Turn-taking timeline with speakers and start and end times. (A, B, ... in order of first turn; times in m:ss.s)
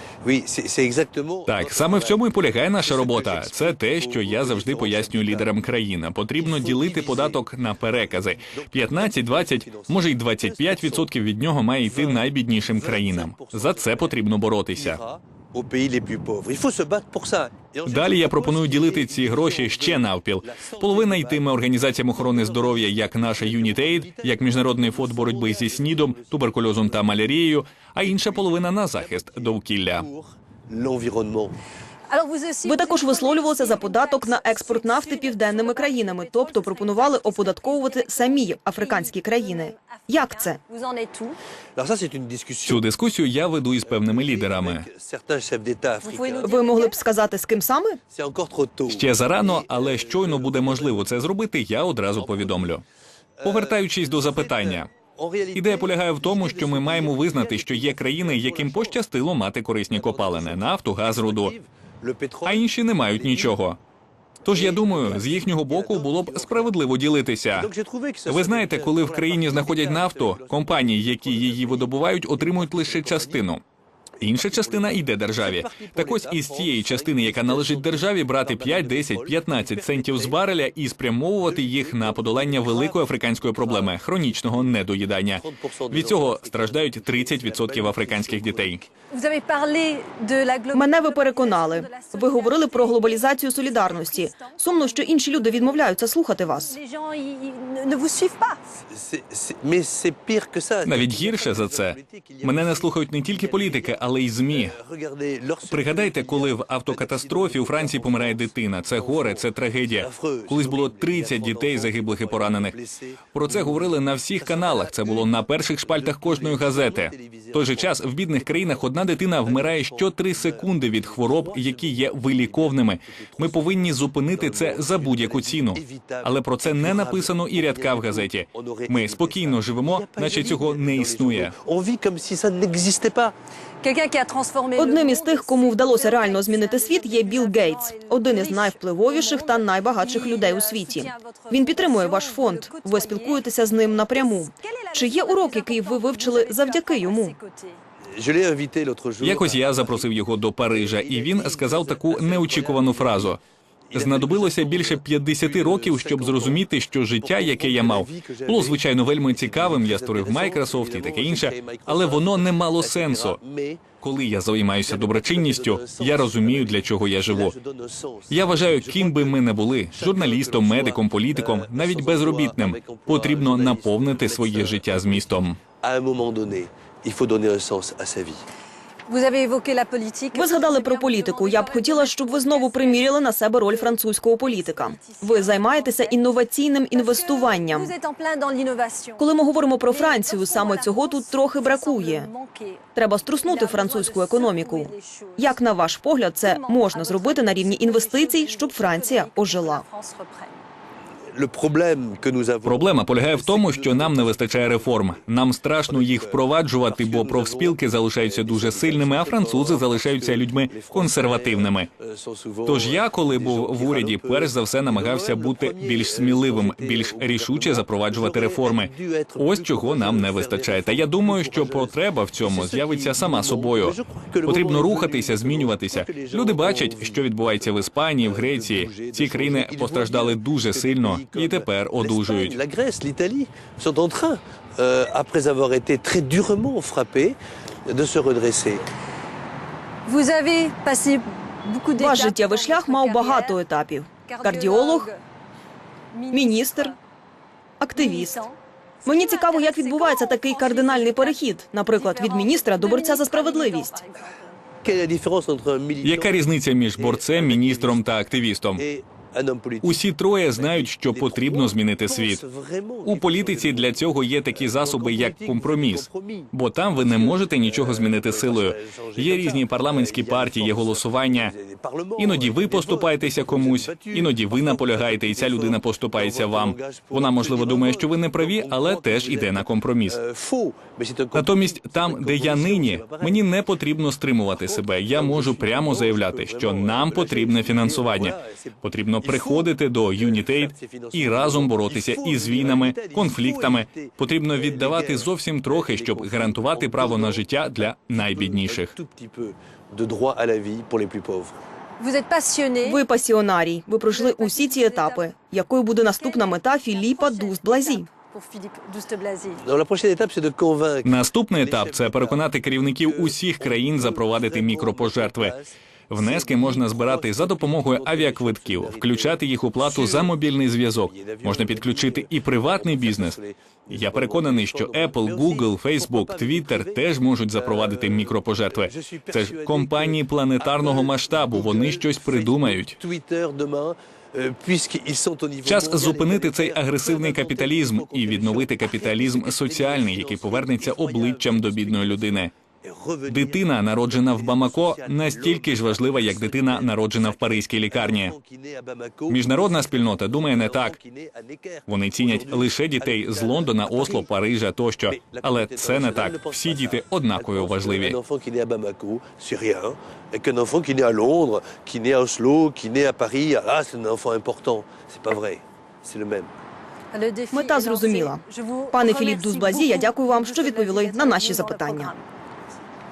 0:00.2-0:05.5 A
0:01.5-0:15.0 B
0:06.3-0:07.4 A
0:08.0-0:11.1 A
0:11.8-0:27.2 A
0:17.8-0:30.1 B
0:28.0-0:31.6 A
0:32.1-0:41.4 C
0:32.6-0:40.6 D
0:41.8-0:42.8 A
0:42.6-0:44.8 B
0:43.8-0:46.5 A
0:46.0-0:47.0 C
0:46.4-0:48.0 D
0:48.1-0:51.3 A
0:48.9-0:52.8 B
0:52.1-0:52.8 A
0:53.4-0:59.0 A
0:53.4-0:54.9 B
0:55.5-1:01.5 B
0:59.9-1:03.6 A
1:02.4-1:03.8 B
1:04.4-1:06.8 A
1:04.4-1:07.7 B
1:07.6-1:13.4 A
1:08.3-1:13.6 B
1:14.2-1:28.8 B
1:14.2-1:20.4 A
1:21.4-1:23.9 A
1:25.4-1:28.9 A
1:29.1-1:35.9 C
1:30.7-1:36.8 D
1:36.5-1:38.7 C
1:38.9-1:49.5 A
1:40.8-1:44.8 B
1:45.7-1:52.7 B
1:50.0-2:03.8 A
1:53.3-2:11.5 B
2:04.3-2:13.3 A
2:13.8-2:23.5 C
2:14.8-2:27.3 D
2:24.1-2:27.8 C
2:28.1-2:30.1 A
2:29.2-2:33.4 B
2:30.7-2:33.4 A
2:33.9-2:36.6 A
2:33.9-2:43.4 B
2:37.2-2:43.8 A
2:44.0-2:47.5 B
2:44.8-2:58.4 A
2:48.3-2:55.6 B
2:59.1-3:06.3 C
3:00.3-3:07.9 D
3:06.9-3:09.3 C
3:09.2-3:12.3 D
3:09.8-3:15.6 C
3:12.9-3:19.8 D
3:16.4-3:20.6 C
3:21.3-3:25.2 A
3:22.6-3:31.9 B
3:25.8-3:58.8 A
3:32.6-3:52.6 B
4:00.0-4:03.6 C
4:02.0-4:05.1 D
4:04.2-4:05.2 C
4:06.1-4:07.0 C
4:06.3-4:06.9 D
4:07.8-4:08.4 D
4:07.9-4:14.6 C
4:09.0-4:13.9 D
4:14.8-4:18.0 A
4:16.0-4:18.8 B
4:18.8-4:20.0 A
4:19.8-4:22.4 B
4:20.5-4:43.4 A
4:23.0-4:31.5 B
4:32.2-4:40.2 B
4:41.3-4:58.9 B
4:44.5-5:01.6 A
5:02.0-5:03.0 C
5:02.8-5:08.1 D
5:04.0-5:05.3 C
5:06.0-5:09.6 C
5:09.6-5:20.3 A
5:11.0-5:15.6 B
5:16.1-5:23.4 B
5:21.0-5:54.3 A
5:23.9-5:33.0 B
5:35.6-5:42.5 B
5:43.3-5:48.3 B
5:49.3-5:51.0 B
5:51.9-5:58.2 B
5:55.1-6:06.5 A
6:07.1-6:12.2 C
6:07.5-6:08.4 D
6:08.9-6:12.1 D